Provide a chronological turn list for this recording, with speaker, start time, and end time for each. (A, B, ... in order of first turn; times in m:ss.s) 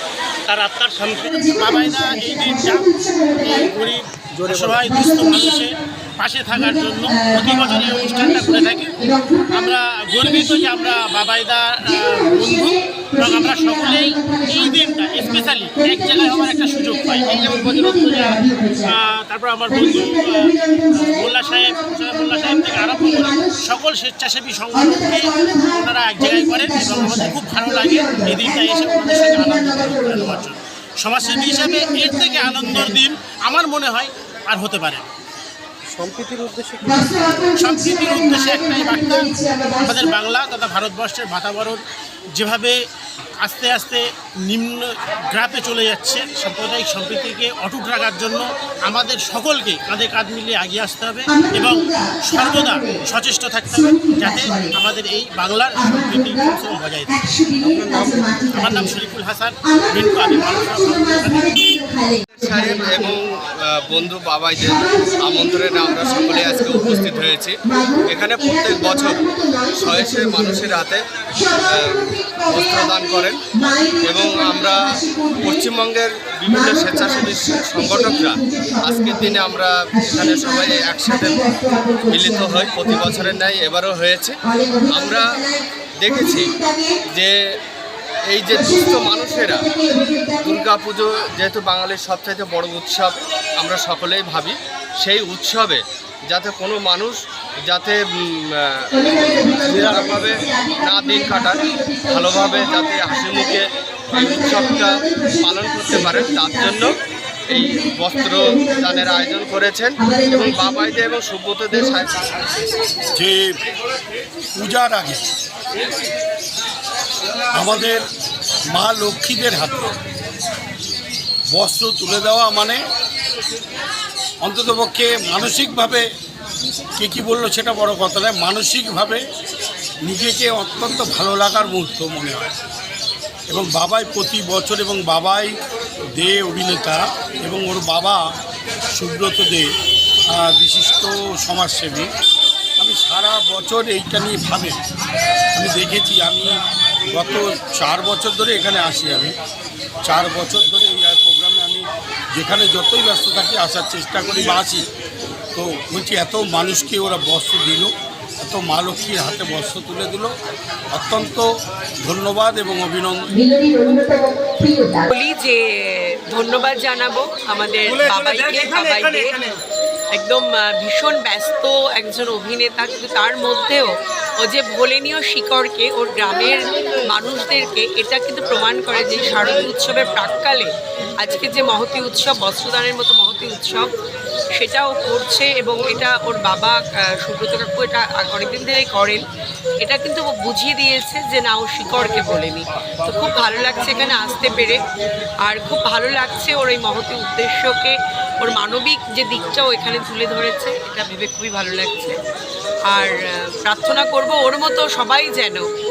0:00.5-0:01.4 A
0:01.4-0:35.0 B
0:01.4-0:03.7 C
0:04.3-0:05.2 D
0:05.2-0:05.6 C
0:06.5-0:09.6 C
0:10.2-0:10.9 C
0:12.2-0:18.9 C
0:19.7-0:23.6 C
0:24.7-0:30.4 C
0:31.2-0:32.9 C
0:35.9-0:37.8 D
0:36.8-0:40.0 C
0:37.6-0:41.8 B
0:42.3-0:42.8 B
0:43.4-0:57.9 B
0:51.3-0:53.0 C
0:53.9-0:54.7 C
0:55.8-0:56.6 C
0:57.1-0:58.9 C
0:57.6-0:58.8 D
0:58.4-1:01.7 B
0:59.7-1:03.1 C
1:02.3-1:25.4 E
1:04.6-1:10.8 C
1:11.4-1:15.7 C
1:16.5-1:23.4 C
1:24.5-1:27.0 C
1:26.0-1:26.6 E
1:27.1-1:27.6 E
1:28.3-1:29.7 E
1:28.5-1:30.6 C
1:30.4-1:47.0 E
1:38.9-1:43.6 C
1:39.6-1:40.3 D
1:44.2-1:46.9 C
1:47.5-1:52.3 E
1:47.6-1:49.4 C
1:50.0-1:51.0 C
1:51.7-1:52.0 C
1:53.1-1:53.5 F
1:54.5-1:55.2 F
1:57.5-1:58.0 F
1:58.8-1:59.9 F
2:01.5-2:02.8 F
2:04.4-2:06.0 F
2:07.0-2:09.2 F
2:10.0-2:12.5 F
2:13.5-2:15.5 F
2:16.2-2:18.2 F
2:18.9-2:19.7 F
2:20.3-2:22.1 F
2:22.8-2:24.8 F
2:25.5-2:26.5 F
2:27.1-2:29.3 F
2:30.0-2:34.8 F
2:35.5-2:40.3 F
2:40.9-2:41.5 F
2:42.0-2:43.2 F
2:43.4-2:49.3 C
2:47.8-2:49.5 A
2:50.1-3:03.9 C
3:04.5-3:09.2 C
3:09.8-3:14.8 C
3:15.4-3:22.2 C
3:22.9-3:25.6 C